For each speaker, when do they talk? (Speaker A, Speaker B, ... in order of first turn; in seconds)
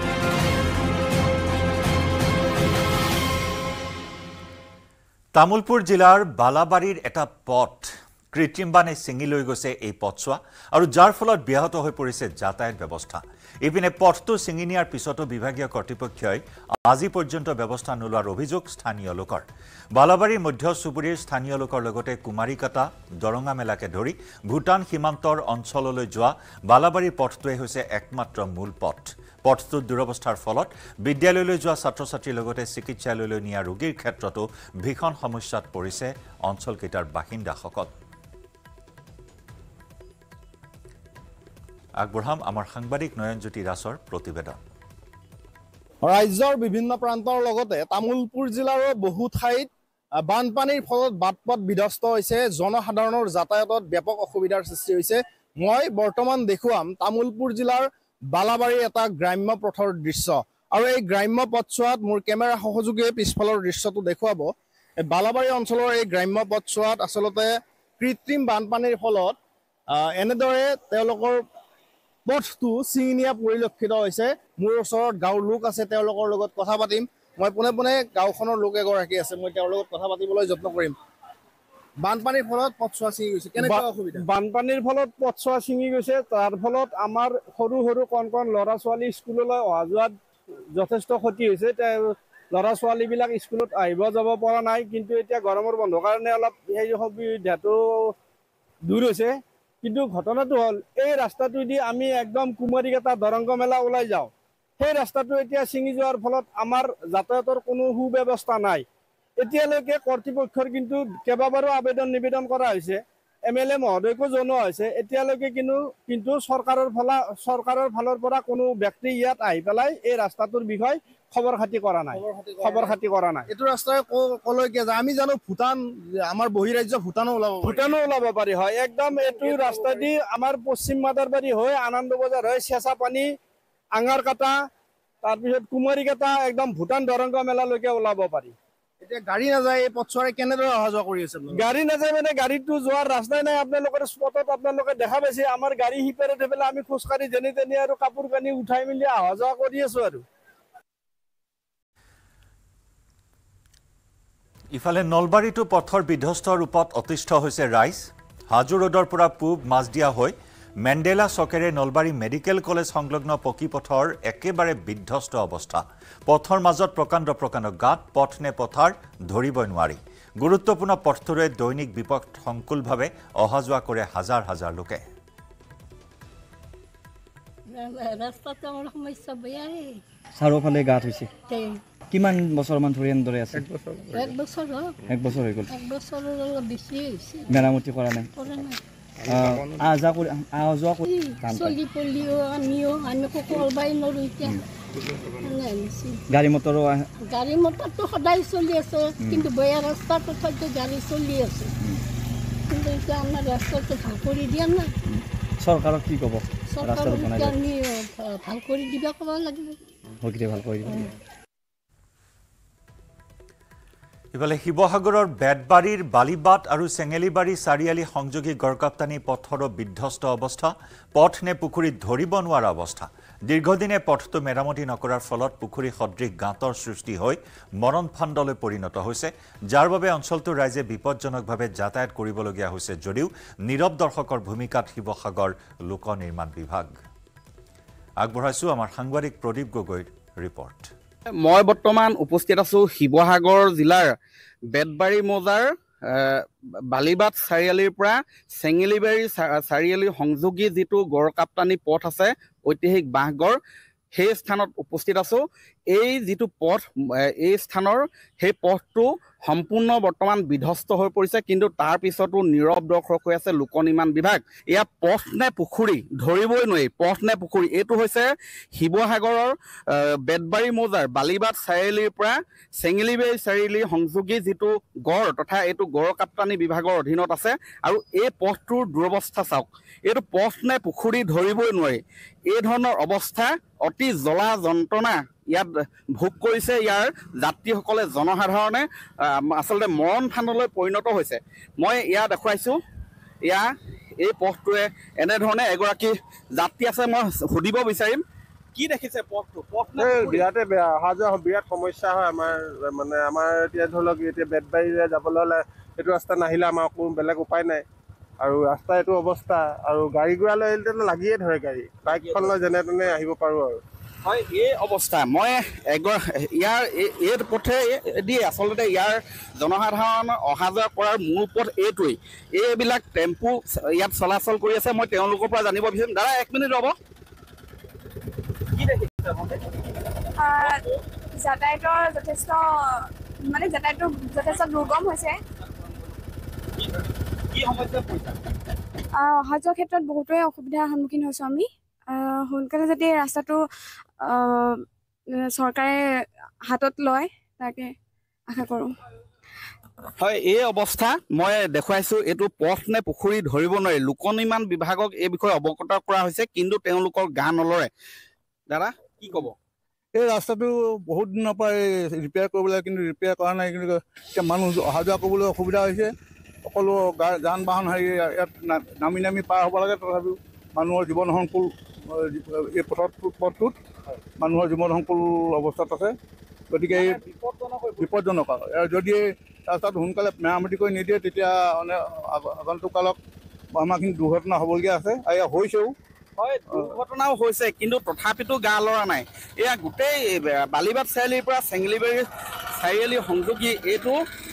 Speaker A: 5.3-37.9, 42.0-44.6, 154.7-175.0, 214.3-236.9, 238.2-240.9
Speaker B: 46.0-49.7, 50.3-64.5, 65.0-69.4, 70.0-71.4, 72.2-81.0, 82.0-84.2, 122.2-122.9, 123.5-127.8, 139.0-141.6
Speaker C: 83.5-90.1, 90.7-98.1, 98.8-108.8, 109.4-123.5, 127.6-133.3, 134.0-134.5, 135.2-138.5, 141.5-150.2
Speaker D: 177.7-180.0, 181.5-181.8, 184.1-185.0, 185.7-187.7, 188.3-188.8, 191.0-194.6, 195.4-196.2, 197.3-201.7, 202.7-204.9, 206.7-209.8
Speaker E: 180.3-181.3, 182.1-183.7, 185.1-185.7, 187.5-188.3, 189.2-191.8, 196.3-197.1, 199.2-199.4, 205.6-207.6, 210.2-211.1
Speaker F: 241.4-244.2, 244.7-253.6, 254.1-255.4, 255.9-256.8, 257.4-292.8, 293.4-298.2, 298.7-300.4, 314.2-326.9, 328.7-329.6, 337.5-338.4, 350.2-357.9, 358.7-359.5, 376.9-378.1, 386.4-392.2, 392.8-394.2
Speaker G: 300.0-307.8, 308.4-313.8
Speaker H: 330.4-330.8, 331.3-335.4, 339.1-343.6, 344.2-344.8, 345.4-346.0, 346.7-347.9, 348.5-348.9
Speaker I: 360.1-366.1, 366.6-373.7, 374.4-376.1, 376.7-377.2, 378.0-383.2, 383.8-385.9